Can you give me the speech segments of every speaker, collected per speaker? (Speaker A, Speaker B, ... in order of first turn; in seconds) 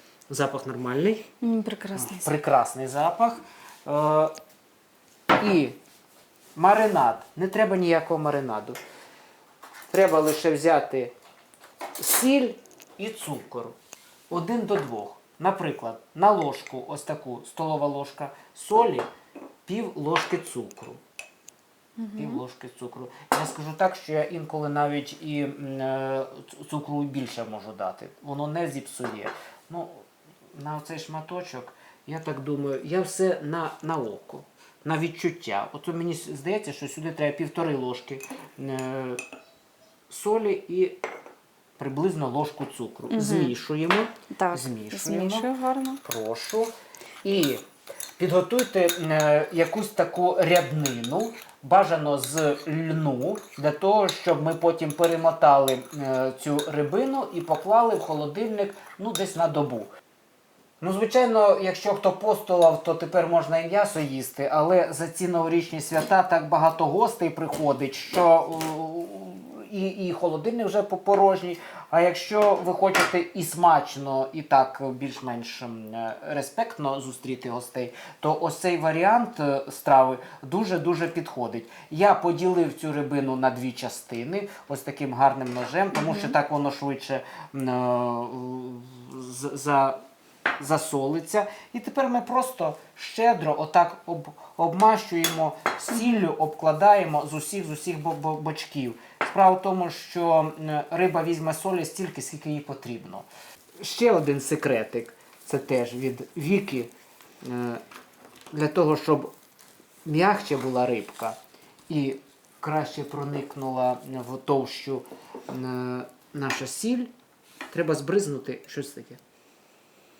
Speaker A: 0.3-1.3, 1.9-4.3, 5.4-5.8, 6.5-8.8, 9.9-11.1, 12.0-13.8, 14.3-19.1, 19.7-21.0, 22.2-30.0, 30.6-39.2, 40.1-41.0, 41.8-45.5, 46.0-46.7, 47.2-47.6, 48.2-59.9, 60.8-90.0, 90.6-103.3, 103.8-106.9, 107.4-107.8, 108.5-109.3, 110.0-111.3, 111.9-117.1, 117.7-119.2
Speaker B: 1.4-2.3, 22.0-22.4, 43.1-43.5, 44.4-46.0, 85.9-86.3